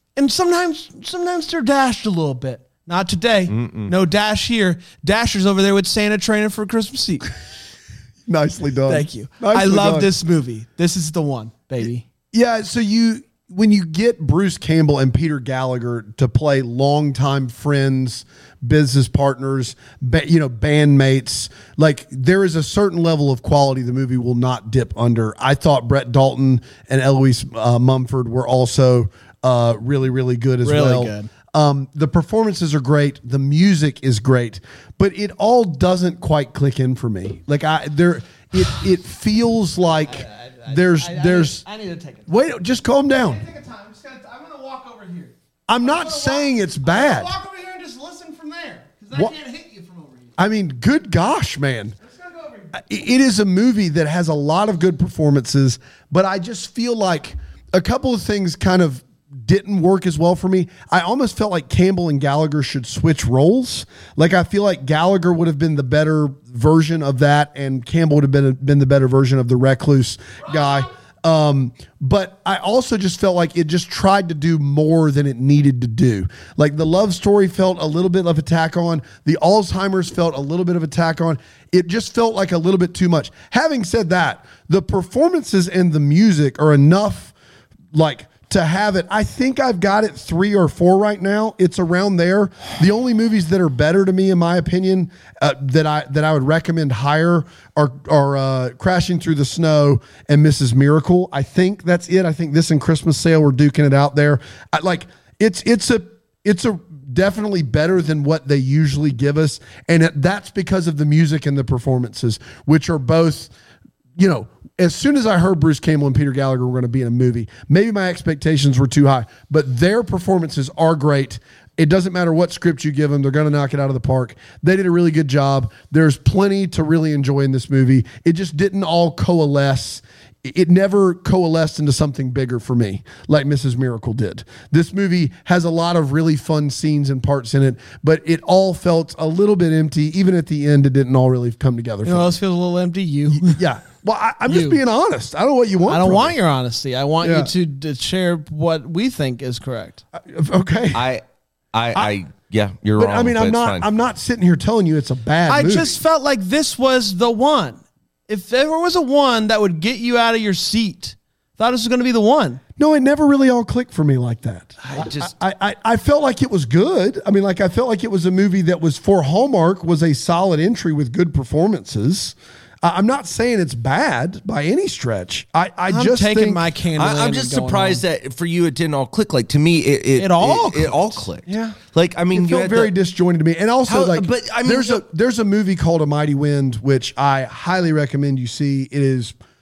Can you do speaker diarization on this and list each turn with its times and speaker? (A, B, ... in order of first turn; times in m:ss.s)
0:00.2-0:07.3 A
0:03.5-0:03.9 B
0:08.2-0:10.1 C
0:08.9-0:12.0 A
0:12.3-0:41.6 C
0:30.6-0:31.3 A
0:40.1-0:42.3 A
0:42.3-0:43.4 C
0:43.2-0:50.3 A
0:45.7-0:47.4 C
0:50.4-0:51.9 C
0:52.0-0:52.8 A
0:52.7-1:27.3 C
1:27.9-1:53.5 C
1:54.2-2:22.3 C
2:22.0-2:23.6 A
2:23.3-2:26.3 C
2:24.5-2:24.8 A
2:25.9-2:30.0 A
2:27.2-2:27.5 C
2:30.2-2:31.0 C
2:30.9-2:33.8 B
2:33.0-2:36.0 C
2:35.5-2:42.6 A
2:42.8-2:56.6 C
2:44.9-2:45.3 B
2:55.9-2:58.0 A
2:56.9-3:02.9 B
3:00.2-3:01.2 A
3:01.5-3:01.8 C
3:02.3-3:09.3 C
3:03.9-3:05.0 B